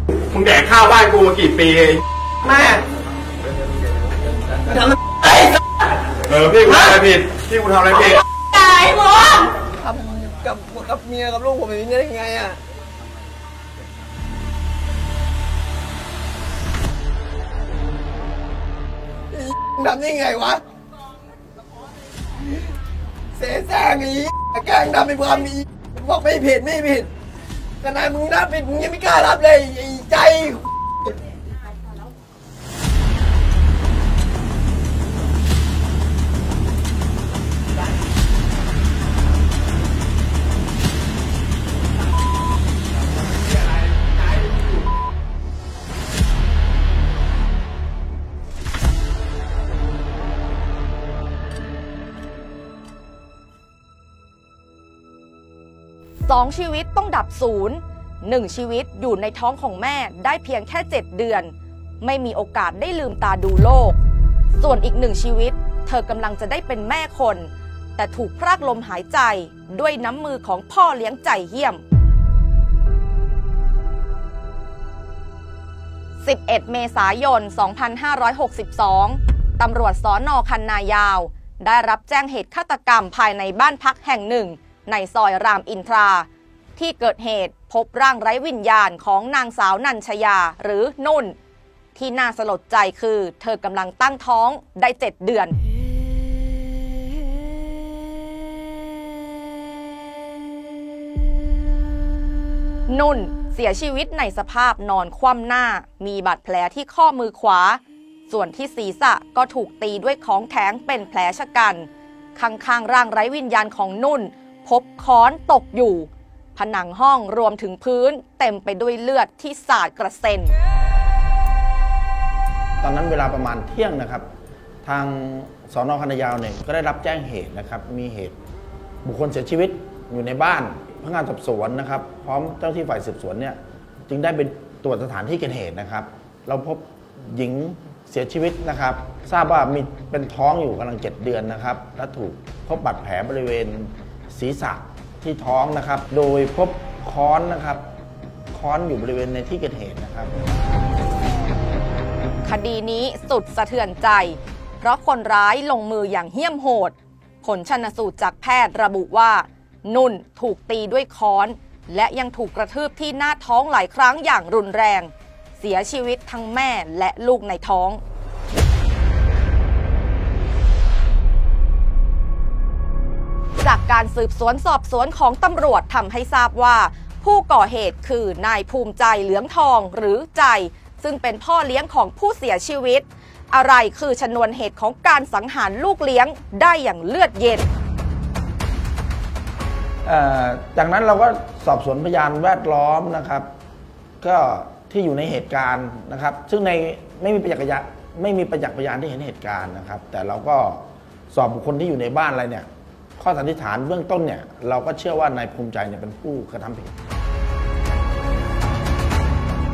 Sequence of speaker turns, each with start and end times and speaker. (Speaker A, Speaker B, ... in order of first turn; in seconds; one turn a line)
Speaker A: 0.3-2.0
Speaker B: 2.5-2.8
Speaker A: 6.3-8.6
Speaker B: 9.6-12.6
Speaker B: 19.3-20.6
Speaker B: 23.4-27.1
Speaker B: 27.8-31.1
Speaker A: 43.7-44.8
Speaker C: 56.2-61.5
Speaker C: 62.0-64.0
Speaker C: 64.6-71.8
Speaker C: 76.2-91.4
Speaker C: 92.0-95.6
Speaker C: 102.9-120.5
Speaker D: 122.8-124.3
Speaker D: 124.8-128.4
Speaker D: 129.0-147.8
Speaker D: 148.5-150.3
Speaker C: 152.4-168.0
Speaker C: 173.6-187.7
Speaker D: 190.1-193.5
Speaker D: 194.2-206.9